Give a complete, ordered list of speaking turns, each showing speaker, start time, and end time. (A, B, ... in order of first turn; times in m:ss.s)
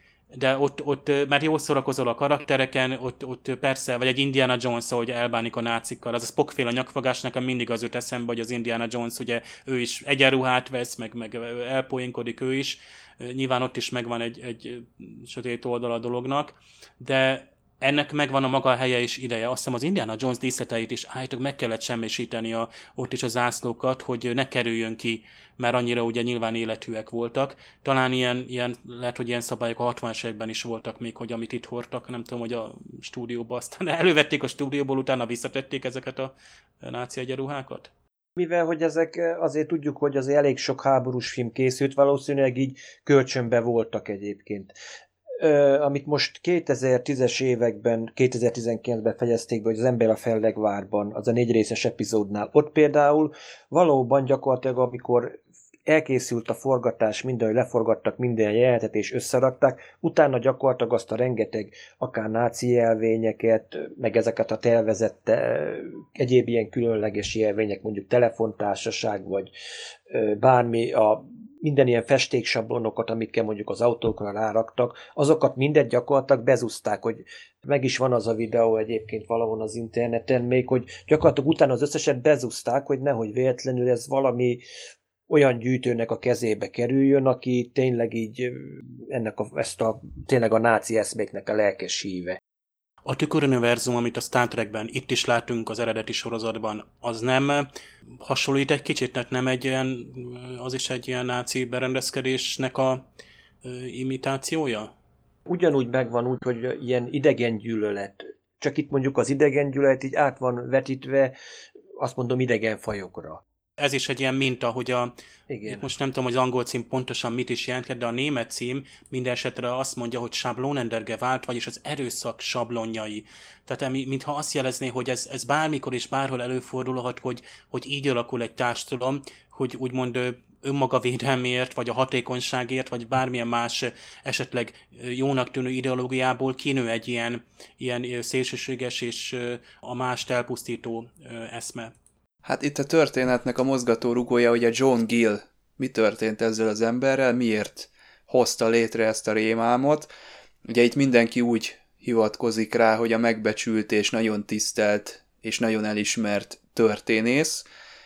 0:00.3-0:37.9 A
0:38.4-0:44.7 B
0:45.4-1:09.5 B
1:10.1-1:24.6 B
1:25.3-1:32.4 B
1:33.0-1:37.7 A
1:38.2-1:43.0 A
1:43.6-1:44.9 A
1:45.5-1:51.3 B
1:52.0-1:53.4 B
1:53.8-1:55.1 A
1:55.5-1:55.8 B
1:55.7-2:21.9 A
2:22.4-2:30.1 C
2:30.7-2:37.6 C